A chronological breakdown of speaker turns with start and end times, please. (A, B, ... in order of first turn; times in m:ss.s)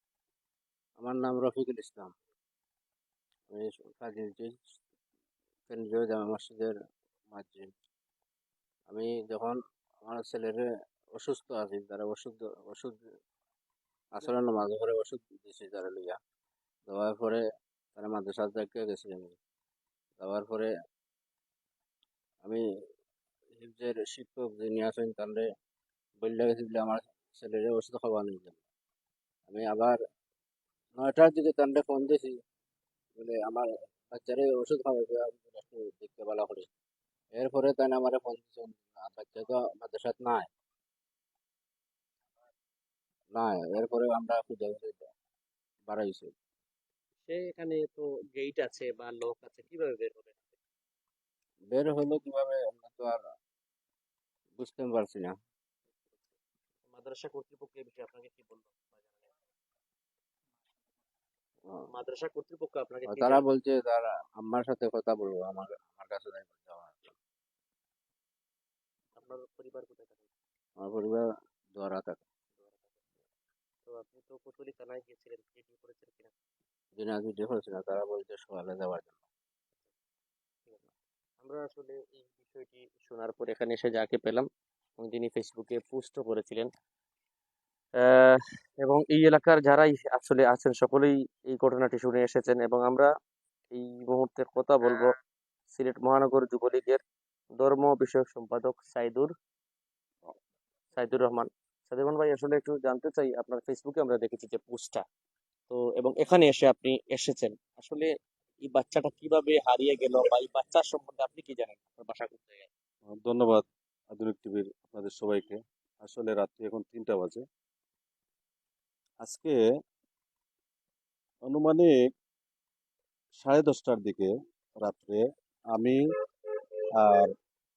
0:01.0-0:02.1 A
0:03.5-0:04.8 A
0:05.7-0:06.7 A
0:07.3-0:07.7 A
0:08.9-0:13.0 A
0:14.1-0:16.2 A
0:16.9-0:17.4 A
0:18.0-0:19.3 A
0:20.2-0:20.7 A
0:23.6-0:25.4 A
0:26.2-0:28.6 A
0:29.5-0:30.0 A
0:31.0-0:32.4 A
0:33.2-0:36.7 A
0:37.3-0:40.5 A
0:43.3-0:45.1 A
0:45.9-0:46.3 A
0:47.2-0:50.5 B
0:51.7-0:53.2 A
0:54.6-0:55.3 A
0:56.9-0:59.3 B
1:01.9-1:03.4 B
1:03.1-1:07.1 A
1:09.2-1:10.3 B
1:10.8-1:12.2 A
1:12.6-1:13.0 B
1:13.9-1:16.3 B
1:17.0-1:19.2 A
1:21.4-1:24.4 B
1:25.0-1:26.7 B
1:28.0-1:33.1 B
1:33.7-1:35.1 B
1:35.7-1:37.0 B
1:37.6-1:39.3 B
1:40.9-1:45.0 B
1:45.7-1:48.1 B
1:48.6-1:52.7 B
1:53.1-1:57.4 C
1:59.2-1:59.6 C
2:01.4-2:02.1 C
2:03.4-2:04.3 C
2:04.8-2:06.0 C
2:07.0-2:07.3 C